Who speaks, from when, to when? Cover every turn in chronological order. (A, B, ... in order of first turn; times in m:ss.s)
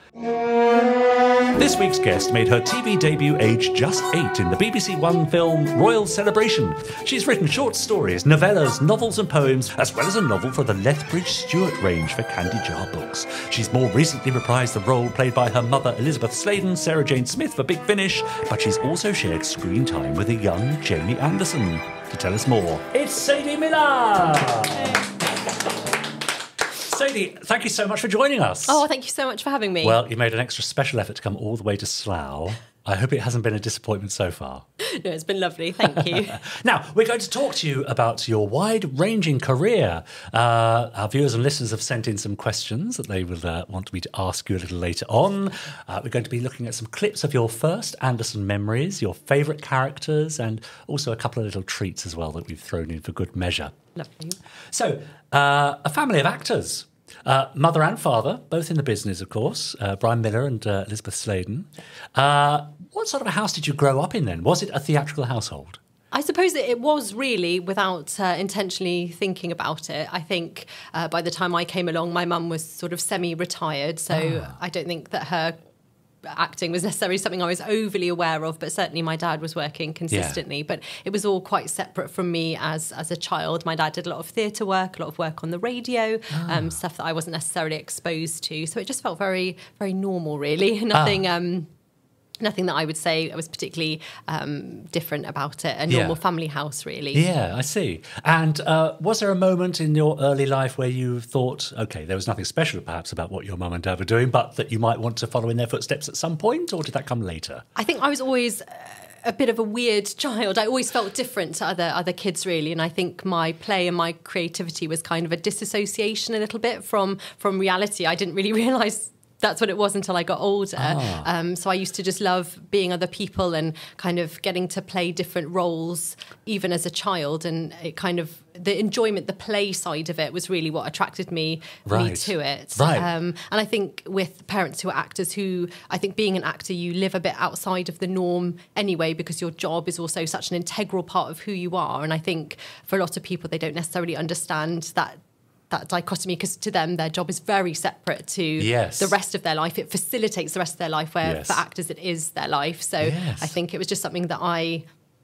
0:01.6-0:25.0 A
0:26.8-0:28.8 A
0:28.7-0:30.0 B
0:29.8-0:34.6 A
0:34.8-0:36.4 B
0:36.0-0:53.7 A
0:54.0-0:54.4 B
0:54.7-1:05.8 A
1:06.1-1:15.6 B
1:14.1-1:14.5 A
1:16.2-1:31.7 B
1:20.1-1:20.4 A
1:26.3-1:26.8 A
1:30.9-1:31.2 A
1:32.4-1:37.2 B
1:35.9-1:36.2 A
1:37.1-1:47.6 A
1:47.8-2:34.8 B
2:00.8-2:01.3 A
2:11.8-2:13.1 A
2:28.6-2:29.1 A
2:31.2-2:31.6 A
2:33.0-2:33.6 A